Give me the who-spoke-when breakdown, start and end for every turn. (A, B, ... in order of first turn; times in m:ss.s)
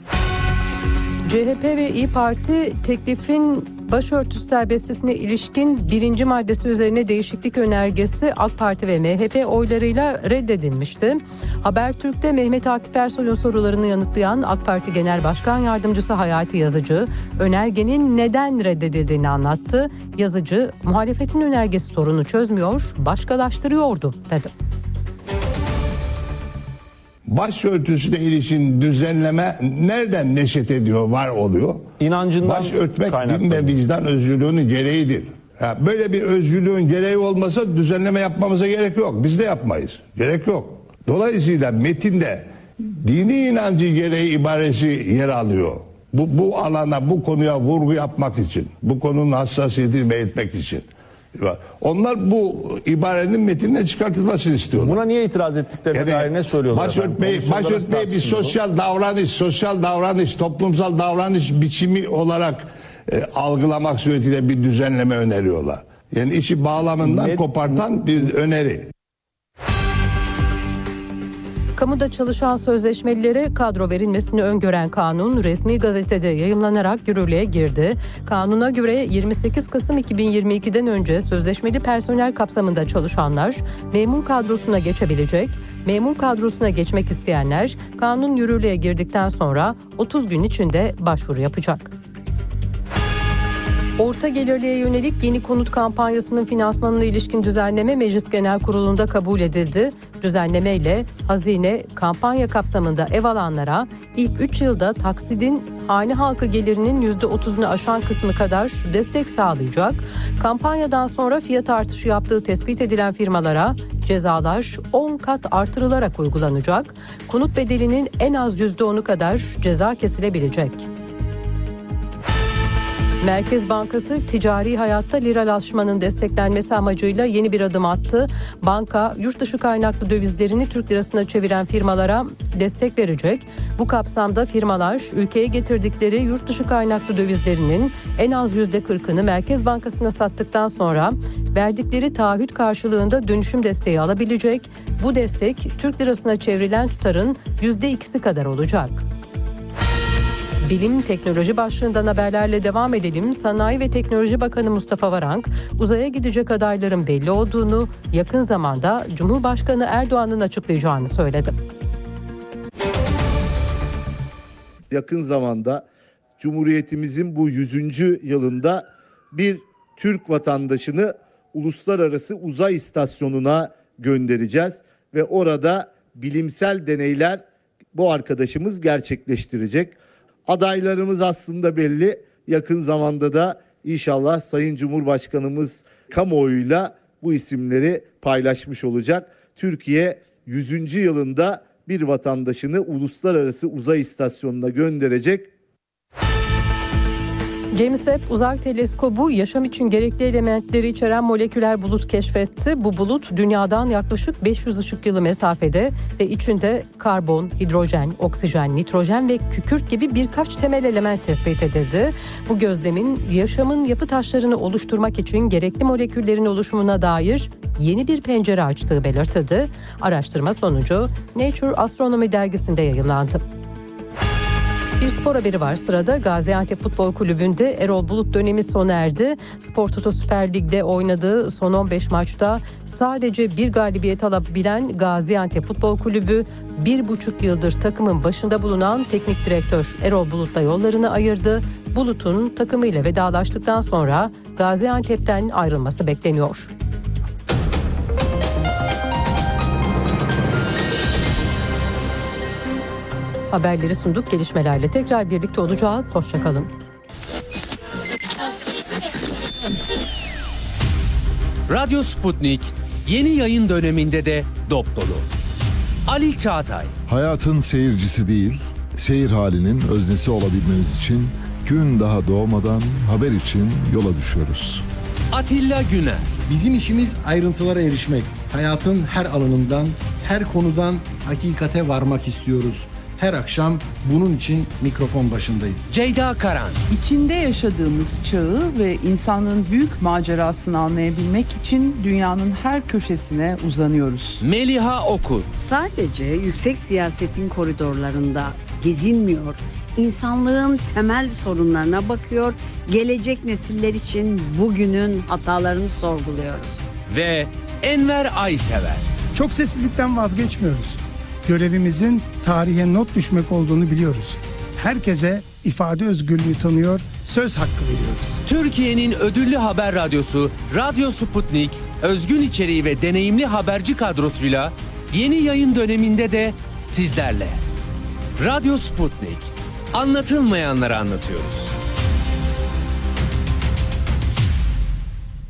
0:01.3-0:24.5 A
0:27.3-0:55.0 B
0:32.0-0:33.8 C
0:54.8-0:58.6 C
0:55.9-1:08.9 B
1:07.0-1:08.1 C
1:11.8-1:31.9 A
1:34.0-2:00.9 A
2:03.2-2:29.0 A
2:30.6-2:41.6 A
2:44.9-2:45.8 D
2:46.4-3:15.5 D
3:17.7-3:43.4 A
3:45.0-4:06.7 A
4:13.5-4:16.7 A
4:21.7-4:25.3 E
4:26.1-4:26.9 E
4:27.1-4:34.8 F
4:35.3-4:36.3 E
4:36.4-4:45.9 G
4:45.9-4:46.8 E
4:46.9-4:54.4 H
4:54.4-4:55.5 E
4:55.6-5:06.9 I
5:07.1-5:09.0 E
5:09.3-5:18.4 J
5:18.4-5:27.6 E
5:28.4-5:31.8 E